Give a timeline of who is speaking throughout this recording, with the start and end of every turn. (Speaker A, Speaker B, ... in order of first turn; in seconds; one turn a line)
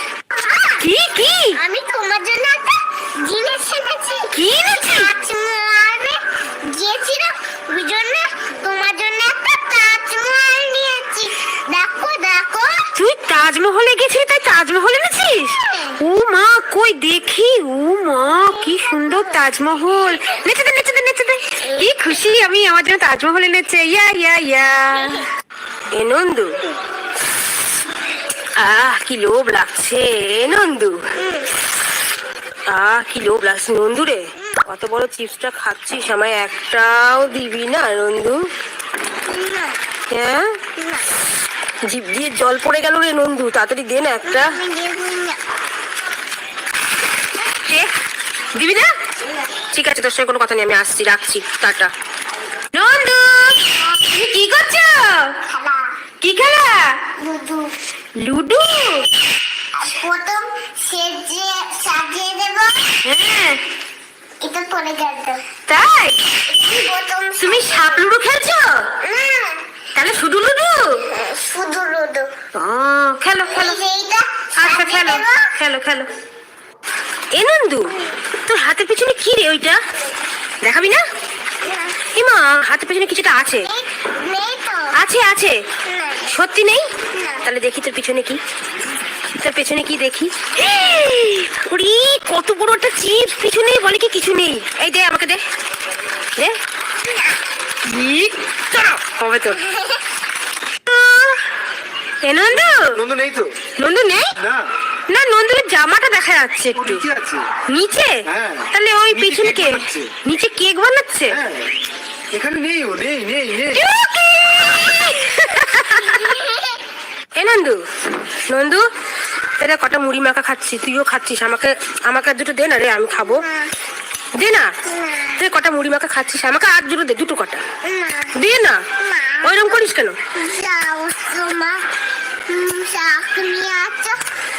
Speaker A: 0.3-0.8
Speaker B: 0.8-1.6
Speaker A: 1.5-12.9
Speaker B: 4.3-5.1
Speaker B: 12.9-25.3
Speaker A: 15.5-16.0
Speaker B: 25.9-26.6
Speaker B: 28.6-31.0
Speaker B: 32.7-38.4
Speaker A: 39.3-39.8
Speaker B: 40.1-40.6
Speaker B: 41.9-44.5
Speaker A: 44.2-45.4
Speaker B: 47.5-47.9
Speaker B: 48.5-48.9
Speaker B: 49.7-51.9
Speaker B: 52.7-55.4
Speaker A: 55.5-55.9
Speaker B: 56.2-57.0
Speaker A: 57.2-57.7
Speaker B: 58.2-59.1
Speaker A: 59.7-63.0
Speaker B: 63.0-63.6
Speaker A: 64.4-65.4
Speaker B: 65.7-66.3
Speaker A: 66.5-68.0
Speaker B: 67.4-68.9
Speaker A: 69.0-69.6
Speaker B: 69.9-71.0
Speaker A: 71.1-72.3
Speaker B: 72.5-73.8
Speaker A: 73.5-75.5
Speaker B: 74.6-76.1
Speaker B: 77.3-79.8
Speaker B: 80.6-81.0
Speaker B: 82.1-83.7
Speaker A: 83.6-84.9
Speaker B: 85.0-85.6
Speaker A: 85.8-86.4
Speaker B: 86.3-88.4
Speaker A: 87.1-87.4
Speaker B: 89.3-95.4
Speaker B: 97.8-99.7
Speaker A: 99.7-100.0
Speaker B: 100.8-101.5
Speaker B: 102.2-103.0
Speaker C: 102.9-103.5
Speaker B: 103.8-104.4
Speaker B: 105.1-107.1
Speaker C: 106.9-107.4
Speaker B: 107.7-111.4
Speaker C: 109.2-110.1
Speaker C: 112.3-113.7
Speaker B: 113.6-116.3
Speaker A: 116.0-116.8
Speaker B: 117.3-117.8
Speaker B: 118.5-118.9
Speaker B: 119.6-123.4
Speaker A: 123.3-123.7
Speaker B: 124.3-124.7
Speaker A: 124.8-125.4
Speaker B: 125.4-127.6
Speaker A: 127.8-128.4
Speaker B: 128.3-128.8
Speaker A: 128.9-131.8
Speaker B: 129.4-130.2
Speaker A: 132.5-134.2